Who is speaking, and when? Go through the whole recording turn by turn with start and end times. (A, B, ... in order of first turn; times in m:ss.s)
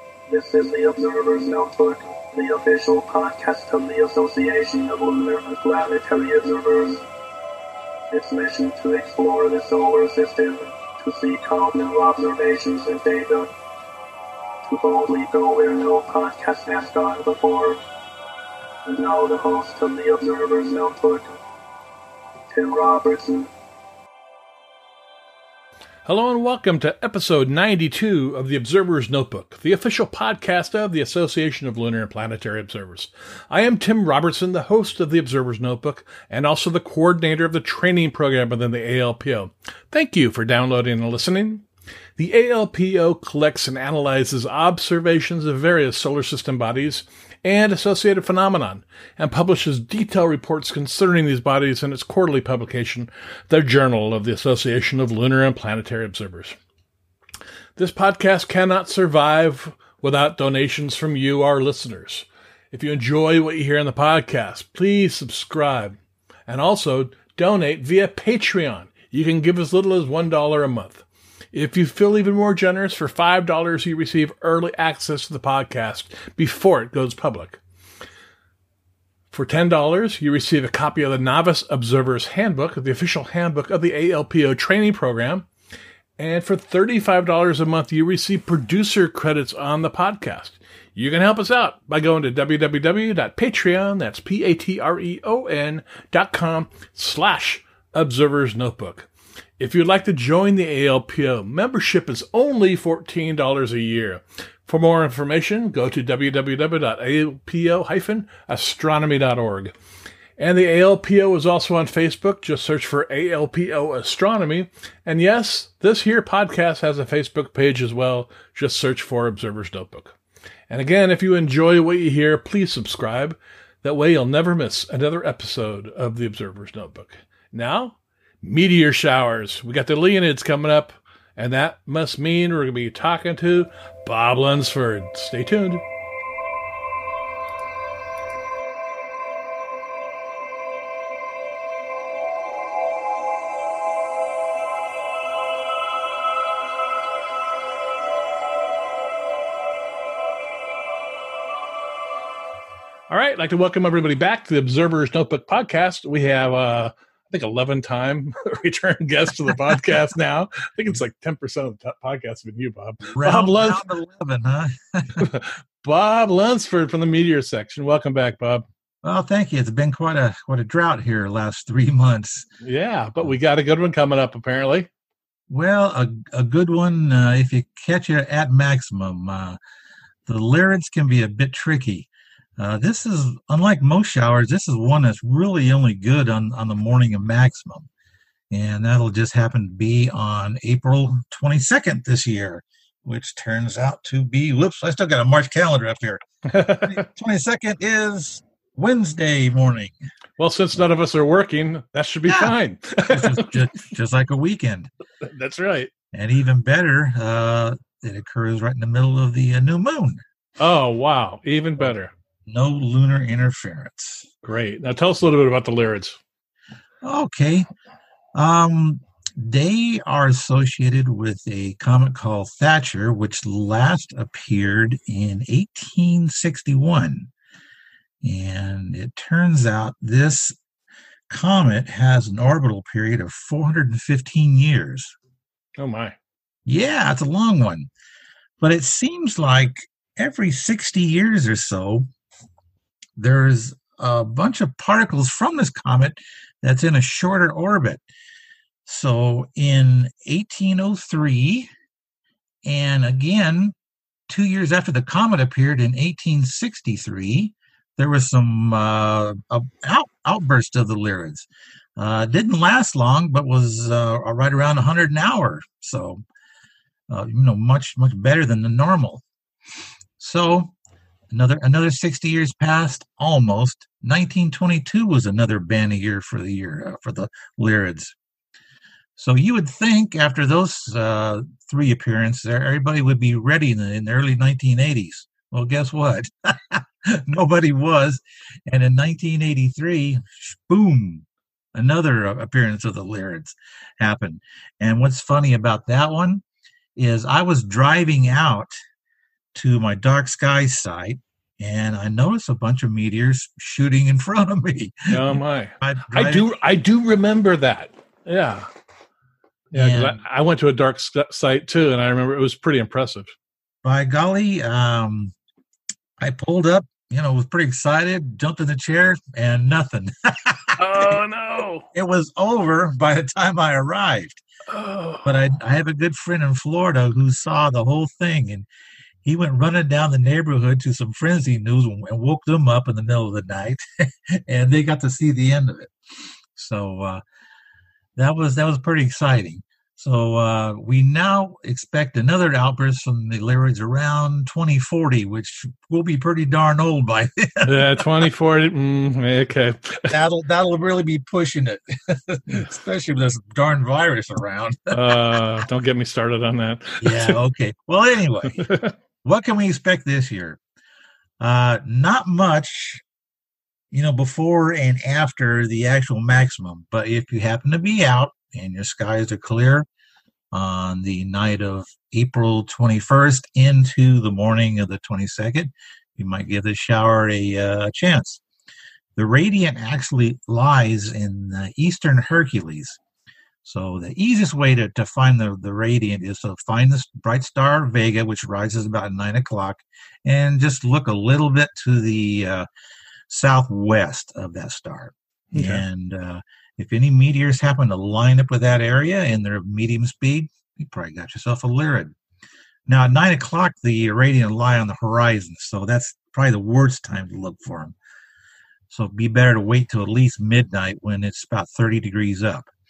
0:00.3-0:07.1 A
0:08.1-0:13.5 A
0:14.6-0:17.8 A
0:18.8-0:21.4 A
0:22.5-0:23.5 A
0:26.0-0:41.6 B
0:42.2-0:56.6 B
0:57.8-1:17.6 B
1:19.3-1:25.5 B
1:26.2-1:49.8 B
1:50.4-2:00.2 B
2:00.7-2:15.8 B
2:33.1-2:43.8 B
2:43.0-2:45.3 C
2:45.2-2:48.6 B
2:49.0-2:52.5 C
2:52.6-2:54.9 B
2:55.5-2:59.6 C
3:00.3-3:07.9 C
3:08.5-3:16.2 C
3:16.5-3:17.0 B
3:16.7-3:20.0 C
3:20.4-3:23.5 B
3:22.3-3:24.9 C
3:25.2-3:25.9 B
3:26.1-3:30.2 C
3:30.6-3:32.1 B
3:32.5-3:34.3 C
3:34.4-3:36.2 B
3:37.0-3:37.7 C
3:38.3-3:47.3 C
3:48.2-3:50.6 C
3:51.3-3:55.2 C
3:55.8-3:56.2 B
3:56.7-3:57.9 C
3:58.6-4:02.1 C
4:03.2-4:08.0 C
4:08.8-4:11.7 C
4:12.6-4:13.8 C
4:14.3-4:26.2 C
4:27.1-4:29.2 C
4:30.2-4:30.7 C
4:31.3-4:38.2 C
4:39.2-4:56.4 C
4:57.0-4:58.7 C
4:59.5-5:06.5 C
5:05.1-5:08.7 B
5:09.7-5:13.4 B
5:09.7-5:10.2 C
5:13.8-5:15.3 C
5:16.2-5:21.2 C
5:20.8-5:21.9 B
5:21.9-5:24.4 C
5:24.7-5:25.3 B
5:25.2-5:28.7 C
5:29.2-5:35.9 C
5:36.6-5:37.2 C
5:38.2-5:48.3 C
5:47.6-5:50.1 B
5:50.1-5:55.0 C
5:54.9-5:57.4 B
5:57.0-5:58.7 C
5:58.5-5:58.9 B
5:59.2-6:00.6 C
6:01.4-6:03.0 C
6:03.9-6:09.9 C
6:10.5-6:18.4 C
6:19.2-6:23.0 C
6:23.6-6:32.7 C
6:33.3-6:42.1 C
6:35.5-6:35.8 B
6:42.9-6:48.0 C
6:48.9-6:52.7 C